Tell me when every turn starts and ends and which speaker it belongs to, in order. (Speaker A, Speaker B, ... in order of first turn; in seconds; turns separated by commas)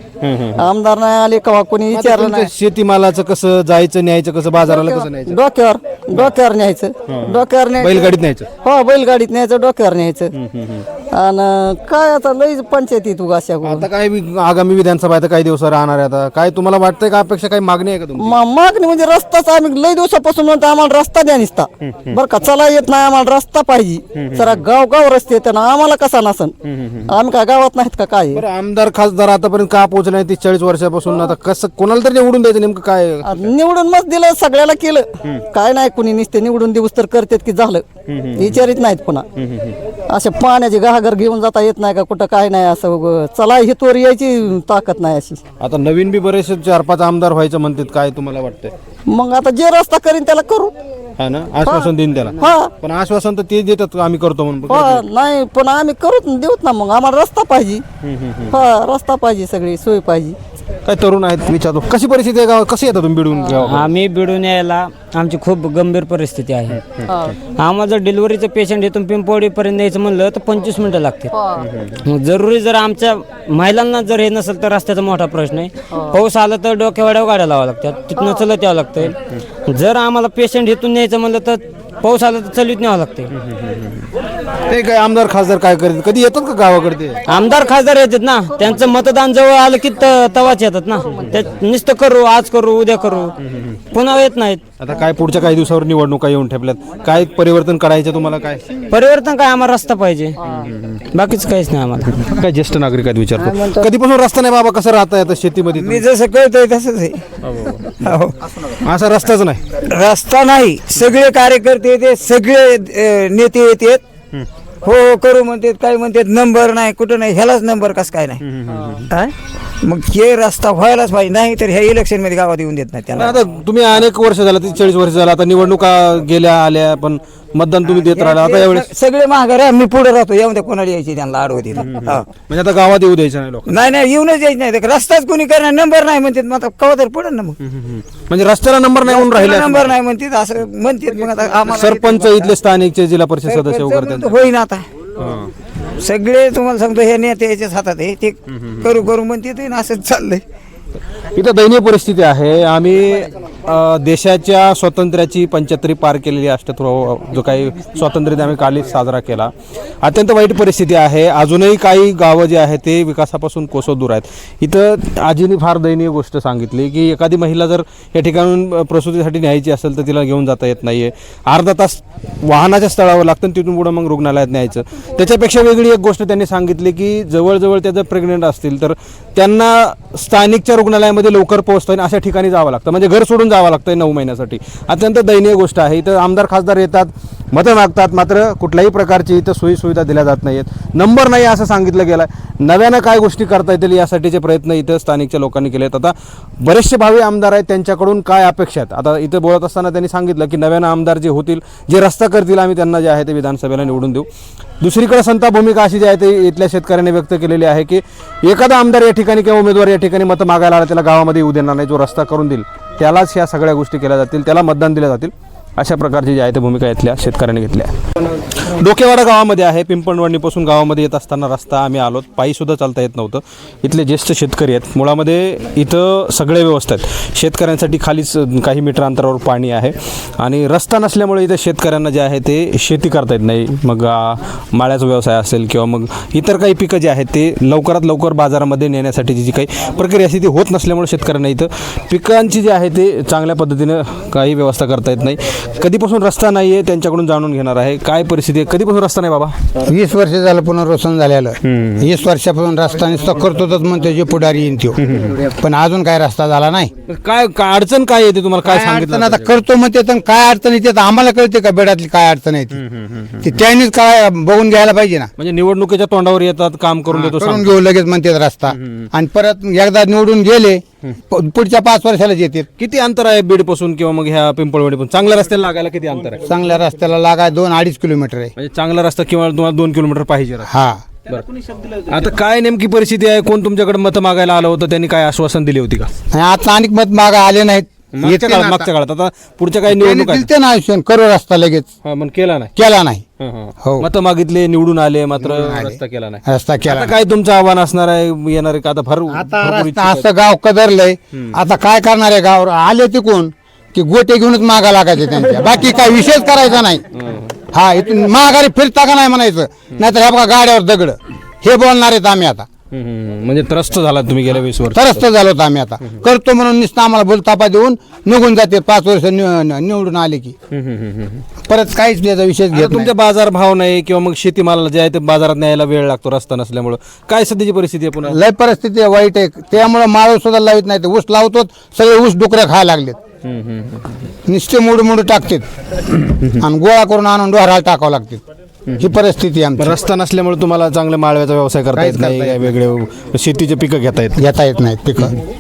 Speaker A: 0.2-0.7, Speaker B: 0.5-2.5, Speaker A: 1.9-5.4, Speaker B: 4.7-10.3, Speaker A: 7.1-8.5, Speaker A: 10.3-10.8, Speaker B: 11.1-13.9, Speaker A: 13.6-18.4, Speaker B: 18.2-26.5, Speaker A: 21.8-22.1, Speaker A: 24.2-24.6, Speaker A: 26.6-27.1, Speaker B: 27.1-28.4, Speaker A: 28.3-33.5, Speaker B: 33.2-39.2, Speaker A: 38.1-38.6, Speaker A: 39.4-39.8, Speaker B: 40.1-45.4, Speaker A: 45.6-48.7, Speaker B: 49.1-50.7, Speaker A: 51.2-55.0, Speaker B: 51.6-52.7, Speaker B: 54.7-57.8, Speaker A: 58.0-58.5, Speaker B: 58.5-60.4, Speaker A: 60.9-63.9, Speaker C: 63.5-66.8, Speaker A: 66.7-67.3, Speaker C: 67.4-71.3, Speaker A: 71.5-71.9, Speaker C: 72.0-83.3, Speaker A: 83.4-84.1, Speaker A: 84.7-87.2, Speaker C: 87.3-93.4, Speaker A: 93.5-93.8, Speaker C: 93.9-94.6, Speaker A: 94.8-98.6, Speaker C: 98.9-100.3, Speaker A: 100.5-101.0, Speaker C: 101.1-102.2, Speaker A: 102.2-106.1, Speaker D: 105.7-107.3, Speaker A: 107.5-107.9, Speaker D: 107.9-108.6, Speaker A: 108.8-109.7, Speaker D: 109.8-114.0, Speaker D: 114.8-118.4, Speaker A: 118.4-119.1, Speaker D: 119.1-123.4, Speaker A: 123.1-128.9, Speaker D: 127.9-132.2, Speaker A: 131.8-133.8, Speaker D: 133.7-137.6, Speaker A: 137.6-139.9, Speaker D: 139.1-142.5, Speaker A: 141.7-144.3, Speaker D: 143.4-144.9, Speaker A: 145.2-145.5, Speaker D: 146.0-150.4, Speaker A: 151.3-204.3, Speaker A: 204.8-217.9, Speaker A: 218.5-249.6, Speaker E: 249.8-256.9, Speaker A: 251.6-252.1, Speaker A: 255.0-255.4, Speaker A: 257.1-259.5, Speaker E: 258.6-262.8, Speaker A: 262.7-263.5, Speaker E: 263.4-265.3, Speaker A: 265.4-267.7, Speaker E: 267.1-272.7, Speaker A: 268.7-269.1, Speaker A: 272.8-276.4, Speaker E: 276.4-278.5, Speaker A: 278.6-280.7, Speaker E: 280.7-281.0, Speaker A: 282.1-286.1, Speaker E: 286.3-288.9, Speaker A: 288.1-290.5, Speaker E: 289.9-291.9, Speaker A: 292.0-292.7, Speaker E: 292.8-293.2, Speaker A: 293.4-300.2, Speaker E: 293.8-294.1, Speaker E: 295.4-297.1, Speaker E: 299.3-307.0, Speaker A: 307.1-307.5, Speaker E: 307.7-312.7, Speaker A: 312.9-315.2, Speaker E: 314.9-320.5, Speaker A: 320.7-321.4, Speaker E: 321.7-323.1, Speaker A: 322.7-328.4, Speaker E: 328.3-333.2, Speaker A: 333.4-334.1, Speaker E: 334.5-335.6, Speaker E: 336.5-338.4, Speaker E: 339.0-340.0, Speaker A: 339.8-344.4, Speaker E: 341.9-342.7, Speaker E: 344.4-345.4